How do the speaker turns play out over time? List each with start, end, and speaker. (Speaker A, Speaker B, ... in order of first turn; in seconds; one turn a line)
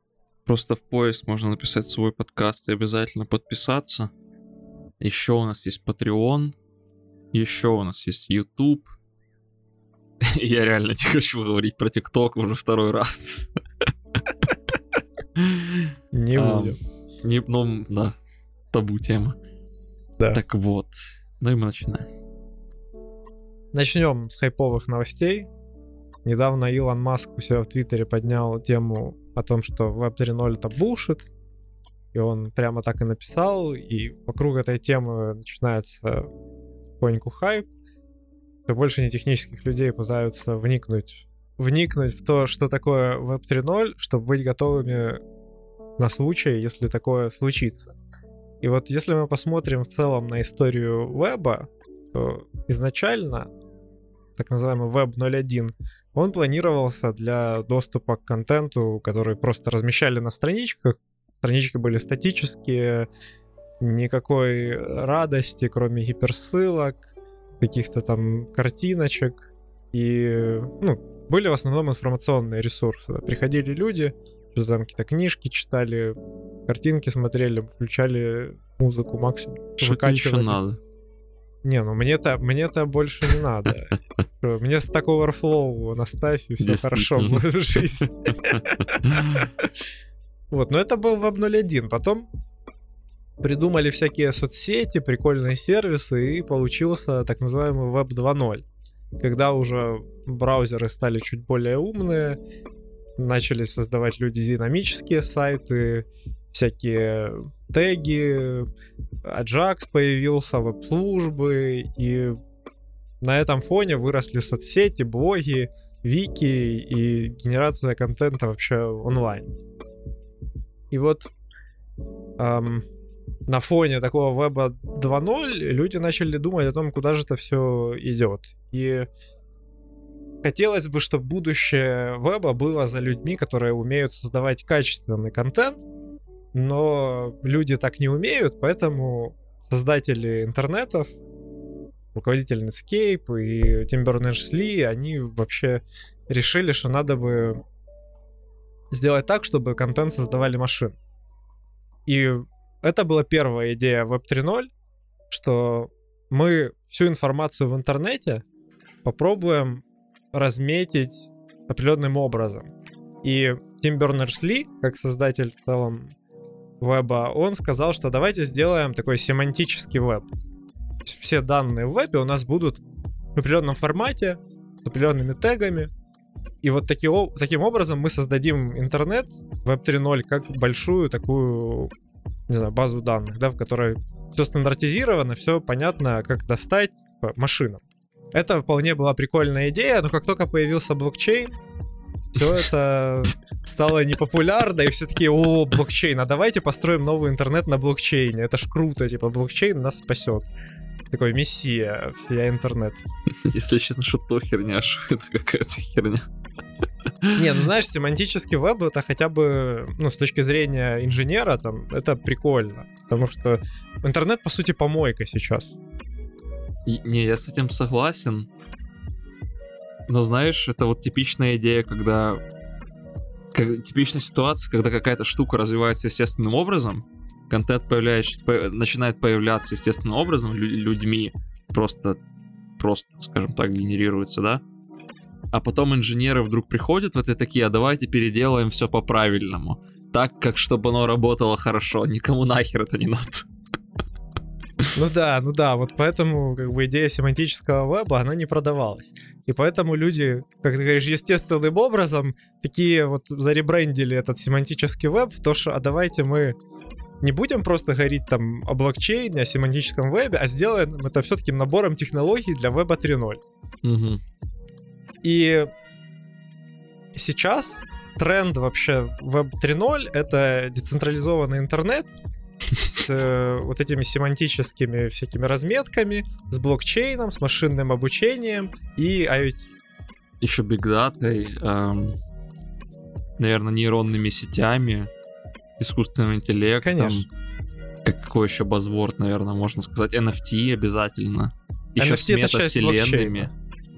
Speaker A: 0.5-4.1
Speaker A: 5.0-6.5
Speaker A: 7.3-8.9
Speaker A: 10.2-13.5
Speaker A: 15.4-18.2
Speaker B: 16.1-16.8
Speaker A: 18.7-19.4
Speaker A: 20.3-22.1
Speaker B: 23.7-25.5
Speaker B: 26.2-31.3
Speaker B: 32.1-36.3
Speaker B: 37.0-37.7
Speaker B: 38.7-45.2
Speaker B: 46.0-48.0
Speaker B: 48.6-53.5
Speaker B: 54.4-63.1
Speaker B: 63.8-67.0
Speaker B: 67.6-76.2
Speaker B: 76.7-80.6
Speaker A: 79.8-80.8
Speaker B: 81.6-89.7
Speaker A: 86.6-87.5
Speaker A: 88.0-89.5
Speaker B: 90.5-92.3
Speaker B: 93.4-98.7
Speaker B: 99.2-102.4
Speaker B: 103.2-108.7
Speaker B: 109.2-112.4
Speaker B: 113.2-119.5
Speaker B: 120.9-121.3
Speaker B: 122.4-122.8
Speaker B: 123.5-129.1
Speaker B: 130.4-135.8
Speaker B: 136.5-141.1
Speaker B: 142.2-147.6
Speaker B: 148.9-151.0
Speaker B: 152.1-154.7
Speaker B: 155.3-158.4
Speaker B: 159.0-162.7
Speaker B: 163.2-166.1
Speaker B: 166.8-170.3
Speaker B: 171.1-172.8
Speaker B: 173.3-175.9
Speaker B: 176.6-181.9
Speaker B: 182.5-187.8
Speaker B: 188.3-191.6
Speaker B: 192.3-200.4
Speaker B: 201.1-203.0
Speaker A: 203.3-206.3
Speaker B: 207.3-215.8
Speaker A: 216.8-218.5
Speaker A: 220.1-222.4
Speaker A: 223.5-232.2
Speaker A: 232.8-234.6
Speaker A: 235.5-243.5
Speaker B: 244.9-256.6
Speaker B: 257.2-263.4
Speaker A: 263.8-264.2
Speaker B: 265.2-265.7
Speaker B: 267.1-272.1
Speaker B: 272.7-279.7
Speaker A: 280.4-282.2
Speaker A: 283.4-285.1
Speaker A: 285.8-287.3
Speaker B: 286.8-287.3
Speaker A: 288.0-293.5
Speaker B: 292.0-293.5